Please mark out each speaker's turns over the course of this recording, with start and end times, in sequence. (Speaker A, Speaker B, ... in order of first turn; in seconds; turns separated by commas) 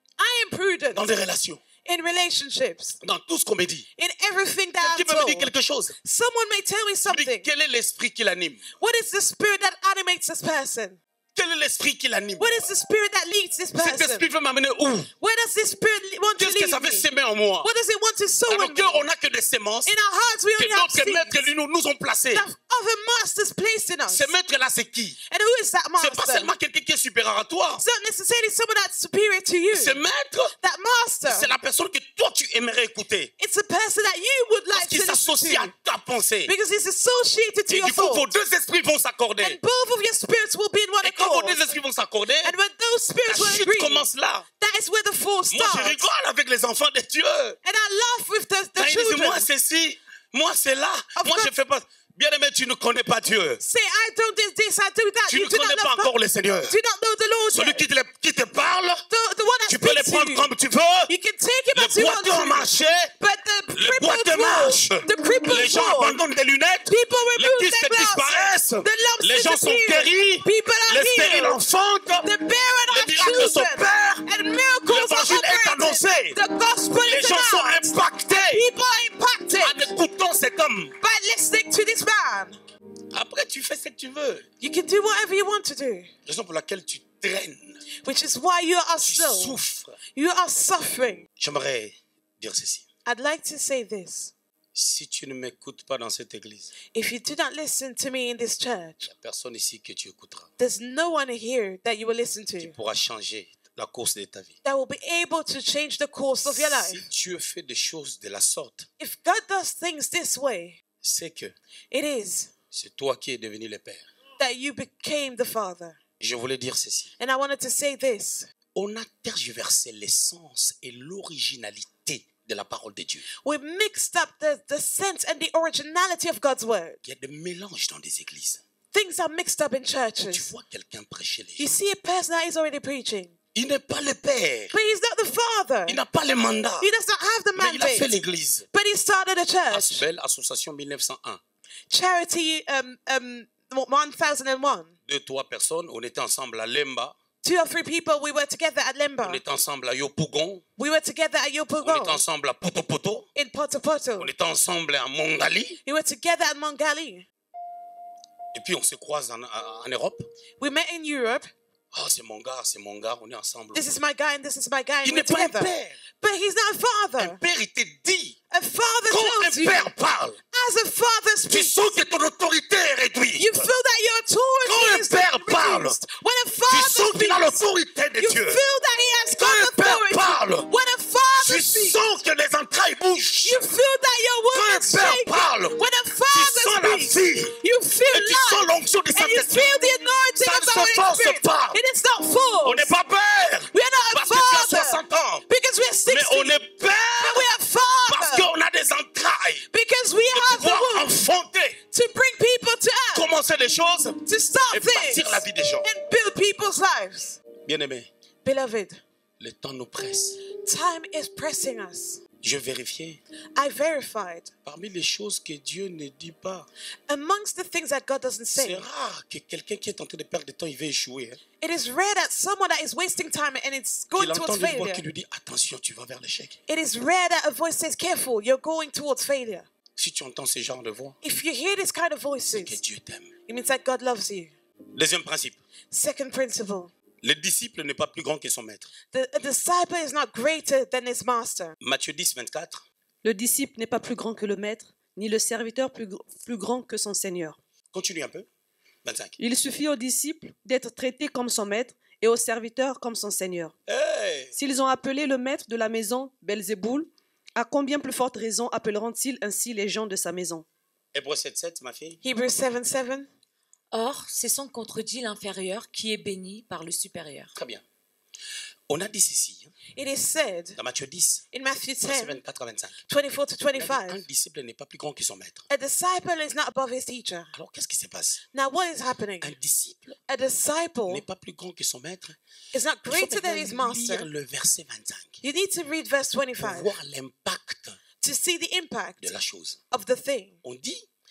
Speaker A: 0.2-1.2, Speaker B: 0.9-1.6, Speaker A: 1.8-3.0, Speaker B: 3.0-3.9, Speaker A: 4.0-5.5, Speaker B: 4.8-5.9, Speaker A: 6.0-7.5, Speaker B: 7.0-8.7, Speaker A: 8.8-11.0, Speaker B: 11.3-12.6, Speaker A: 12.4-14.3, Speaker B: 13.8-15.1, Speaker A: 15.2-17.1, Speaker B: 16.4-17.7, Speaker A: 17.6-19.1, Speaker B: 18.5-19.9, Speaker A: 19.9-21.4, Speaker B: 20.6-22.5, Speaker A: 22.3-24.3, Speaker B: 24.1-25.2, Speaker A: 25.3-26.5, Speaker B: 26.0-27.8, Speaker A: 27.8-30.0, Speaker B: 29.7-30.5, Speaker A: 30.6-31.5, Speaker B: 31.3-33.3, Speaker A: 33.4-35.7, Speaker B: 34.7-36.5, Speaker A: 36.5-38.3, Speaker B: 37.7-39.6, Speaker A: 39.4-41.8, Speaker B: 41.0-42.5, Speaker A: 42.4-44.1, Speaker B: 43.3-44.5, Speaker A: 44.6-46.0, Speaker B: 45.5-47.5, Speaker A: 47.6-49.5, Speaker B: 48.8-53.6, Speaker A: 51.1-51.5, Speaker A: 53.6-56.1, Speaker B: 55.3-56.8, Speaker A: 56.7-57.8, Speaker B: 57.5-59.0, Speaker A: 59.1-60.5, Speaker B: 59.7-61.1, Speaker A: 61.1-66.2, Speaker B: 61.7-63.1, Speaker B: 63.7-72.3, Speaker A: 66.9-71.6, Speaker A: 72.2-79.9, Speaker B: 72.9-74.2, Speaker B: 74.9-76.4, Speaker B: 77.0-78.6, Speaker B: 79.5-80.9, Speaker A: 81.0-82.6, Speaker B: 83.1-84.5, Speaker A: 84.6-86.1, Speaker B: 86.2-87.8, Speaker A: 88.0-89.6, Speaker B: 89.0-90.0, Speaker A: 90.1-91.2, Speaker B: 91.4-92.8, Speaker A: 93.0-94.3, Speaker B: 94.7-96.7, Speaker A: 96.9-99.1, Speaker B: 99.1-100.5, Speaker A: 100.6-102.7, Speaker B: 102.6-104.5, Speaker A: 104.6-107.0, Speaker B: 106.5-108.9, Speaker A: 109.0-110.8, Speaker B: 111.0-111.5, Speaker A: 111.9-112.5, Speaker B: 112.7-114.1, Speaker A: 114.4-116.0, Speaker B: 116.2-117.1, Speaker A: 117.2-118.5, Speaker B: 118.7-123.2, Speaker A: 123.3-127.0, Speaker B: 127.0-128.6, Speaker A: 128.9-130.5, Speaker B: 130.2-131.8, Speaker A: 131.6-133.3, Speaker B: 133.5-134.7, Speaker A: 134.7-136.0, Speaker B: 135.9-136.9, Speaker A: 136.8-138.1, Speaker B: 137.6-138.7, Speaker A: 138.7-140.0, Speaker B: 139.7-141.4, Speaker A: 141.9-144.9, Speaker B: 145.1-147.1, Speaker A: 147.4-149.4, Speaker B: 149.2-150.6, Speaker A: 150.8-152.2, Speaker B: 151.8-153.3, Speaker A: 153.3-154.3, Speaker B: 154.2-155.8, Speaker A: 155.8-157.2, Speaker B: 158.5-160.3, Speaker A: 160.6-161.5, Speaker B: 161.9-163.8, Speaker A: 163.7-167.4, Speaker B: 165.0-166.0, Speaker B: 167.2-168.3, Speaker A: 168.5-169.9, Speaker B: 169.1-170.4, Speaker A: 170.5-171.9, Speaker B: 171.5-173.7, Speaker A: 173.4-177.6, Speaker B: 174.7-176.0, Speaker B: 176.7-178.6, Speaker A: 178.2-182.0, Speaker B: 179.4-180.7, Speaker B: 181.4-183.6, Speaker A: 183.4-192.9, Speaker B: 184.5-185.8, Speaker B: 186.3-187.6, Speaker B: 188.1-189.7, Speaker B: 190.4-191.8, Speaker B: 192.6-195.4, Speaker A: 193.7-196.6, Speaker B: 196.1-197.5, Speaker A: 197.2-198.5, Speaker B: 198.1-199.6, Speaker A: 199.7-201.2, Speaker B: 200.3-201.8, Speaker A: 201.9-203.3, Speaker B: 203.1-204.2, Speaker A: 204.2-207.4, Speaker B: 204.7-205.9, Speaker B: 207.6-208.1, Speaker A: 208.4-209.0, Speaker B: 209.4-210.4, Speaker A: 210.5-212.2, Speaker B: 212.4-213.2, Speaker A: 213.6-214.5, Speaker B: 214.6-216.7, Speaker A: 217.1-218.8, Speaker B: 218.6-221.4, Speaker A: 221.6-225.0, Speaker B: 224.1-226.6, Speaker A: 226.7-229.7, Speaker B: 229.9-231.2, Speaker A: 231.2-232.8, Speaker B: 232.5-233.3, Speaker A: 233.5-234.5, Speaker B: 234.9-235.6, Speaker A: 235.9-236.9, Speaker B: 237.2-238.9, Speaker A: 239.1-241.7, Speaker B: 241.8-242.8, Speaker C: 243.2-247.6, Speaker B: 247.9-248.5, Speaker B: 249.0-249.4, Speaker C: 249.4-253.7, Speaker B: 253.9-254.5, Speaker C: 254.5-260.6, Speaker B: 261.1-262.2, Speaker A: 262.2-263.3, Speaker D: 263.9-267.5, Speaker B: 267.5-267.8, Speaker B: 268.9-269.7, Speaker A: 269.9-270.8, Speaker B: 270.8-271.4, Speaker A: 271.5-272.4, Speaker B: 272.0-273.0, Speaker A: 273.1-274.2, Speaker B: 273.7-275.6, Speaker A: 275.7-277.5, Speaker B: 277.5-278.4, Speaker A: 278.5-279.5, Speaker B: 279.4-280.2, Speaker A: 280.3-281.2, Speaker B: 281.1-282.4, Speaker A: 282.7-284.3, Speaker B: 283.1-285.4, Speaker A: 285.4-287.0, Speaker B: 286.6-288.0, Speaker A: 288.2-289.2, Speaker B: 289.2-289.8, Speaker A: 289.9-290.6, Speaker B: 290.6-291.0